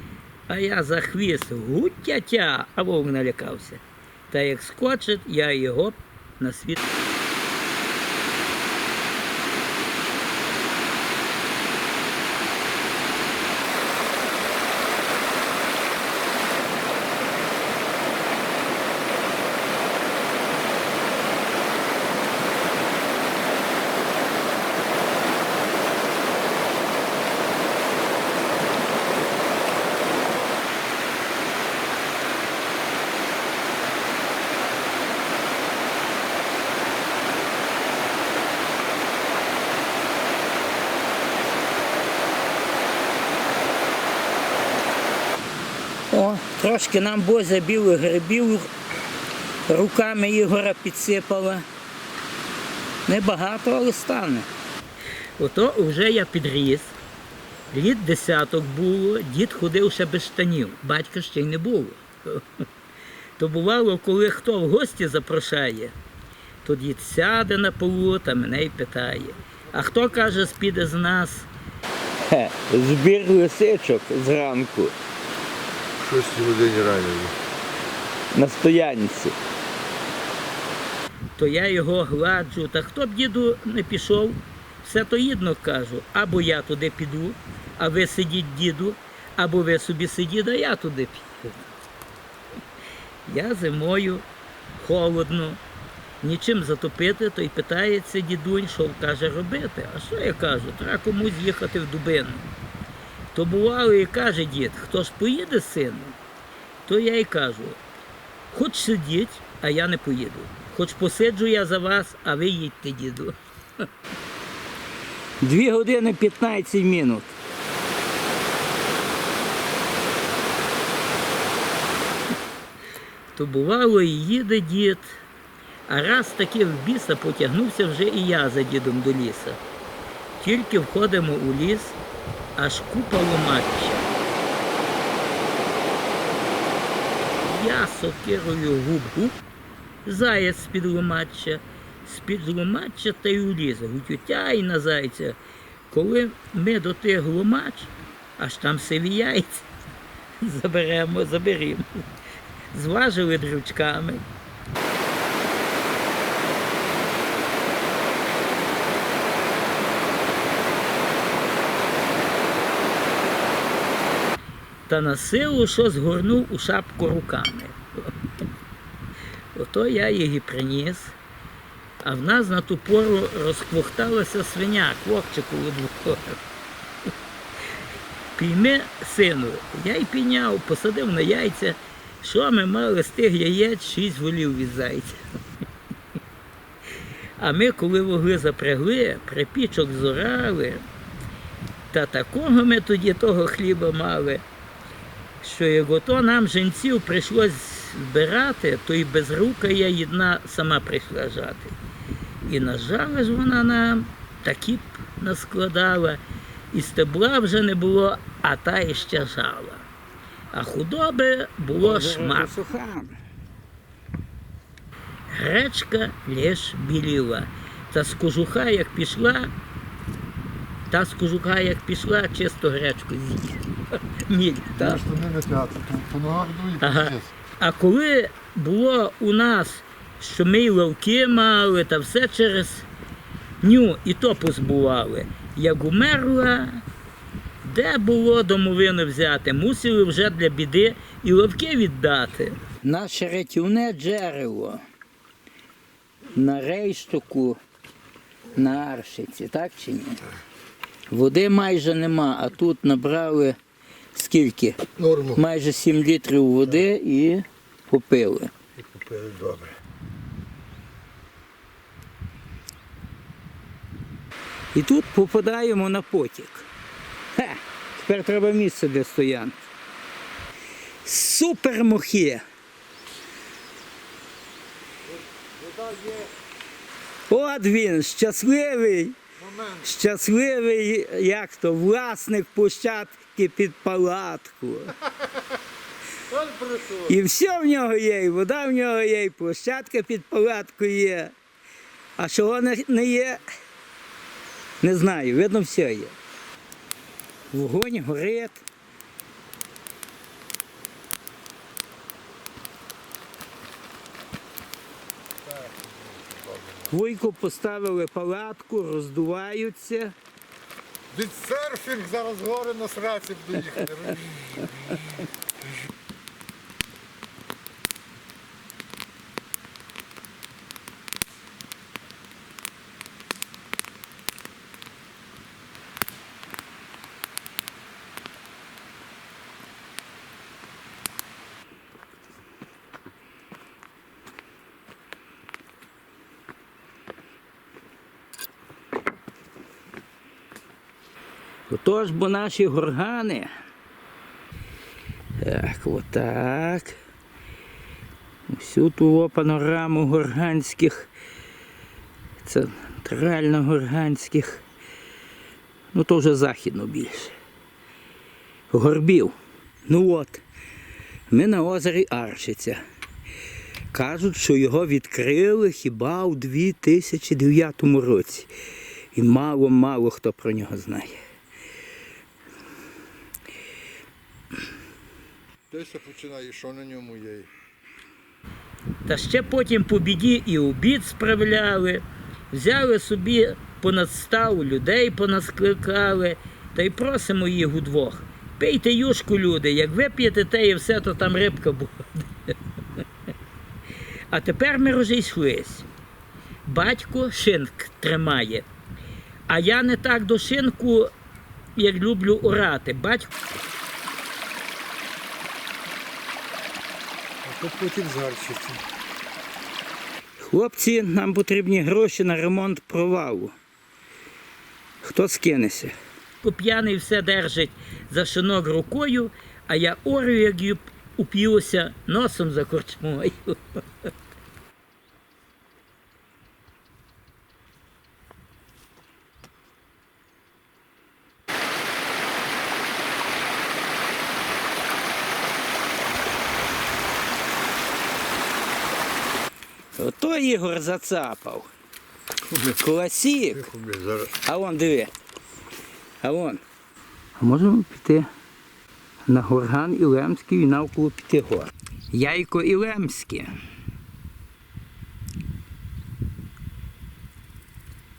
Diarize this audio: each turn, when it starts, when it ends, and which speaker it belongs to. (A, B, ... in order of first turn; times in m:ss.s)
0:00.5-0:06.8 A
0:46.1-0:48.7 A
0:49.7-0:51.7 A
0:53.1-0:54.5 A
0:55.4-0:57.0 A
0:57.7-1:02.6 A
1:03.4-1:06.0 A
1:06.6-1:11.5 A
1:12.2-1:15.0 A
1:16.0-1:17.4 B
1:18.3-1:19.4 A
1:21.4-1:31.7 A
1:33.3-1:34.2 A
1:34.8-1:35.6 A
1:36.2-1:42.5 A
1:43.3-1:46.2 A
1:46.9-1:47.8 A
1:48.5-1:53.8 A
1:55.4-1:57.4 A
2:03.4-2:05.2 A
2:05.9-2:09.6 A
2:10.4-2:12.0 A
2:12.6-2:14.1 A
2:17.4-2:19.4 A
2:20.0-2:25.4 A
2:25.9-2:29.7 A
2:30.4-2:32.1 A
2:32.7-2:34.2 A
2:44.9-2:48.1 A
2:49.6-2:51.2 A
2:52.0-2:56.4 A
2:58.4-3:05.2 A
3:07.4-3:10.8 A
3:11.9-3:14.4 A
3:15.4-3:21.8 A
3:22.5-3:26.2 A
3:26.7-3:29.9 A
3:30.5-3:33.1 A
3:35.3-3:39.5 A
3:40.9-3:43.6 A
3:44.3-3:45.0 A
3:44.8-3:47.3 B
3:46.8-3:52.9 A
3:53.6-3:56.8 A
3:57.6-4:04.8 A
4:06.3-4:07.6 A
4:08.6-4:10.2 A
4:11.1-4:13.6 A
4:14.2-4:14.8 A
4:15.0-4:15.4 B
4:15.4-4:18.5 A
4:18.8-4:19.7 B
4:24.7-4:26.7 A
4:27.4-4:29.6 A
4:31.0-4:32.4 A
4:35.1-4:36.3 B
4:37.3-4:39.2 A
4:39.4-4:39.9 B
4:39.8-4:44.9 A
4:46.3-4:47.2 B
4:47.1-4:51.3 A
4:52.2-4:53.5 A
4:54.8-4:56.2 A
4:57.5-4:58.6 A
5:05.4-5:07.0 B
5:06.9-5:10.2 A
5:11.1-5:15.3 B
5:41.7-5:43.5 A
5:45.4-5:47.0 A
5:48.5-5:51.1 A
5:52.4-5:54.6 A
5:55.9-5:57.3 A
5:58.7-5:59.4 A
5:59.9-6:00.4 A
6:01.3-6:02.8 A
6:03.9-6:08.5 A
6:09.2-6:11.2 A
6:15.7-6:17.5 B
6:19.1-6:32.6 A
6:34.3-6:35.9 A
6:36.7-6:38.7 A
6:39.5-6:41.1 A
6:41.8-6:43.4 A
6:47.4-6:48.8 B
6:50.4-6:53.5 A
6:55.0-7:03.8 A
7:20.0-7:21.7 A
7:22.4-7:22.8 B
7:22.8-7:23.7 A
7:23.5-7:24.3 B
7:24.4-7:25.1 A
7:26.2-7:26.6 A
7:27.4-7:28.3 A
7:29.3-7:33.5 A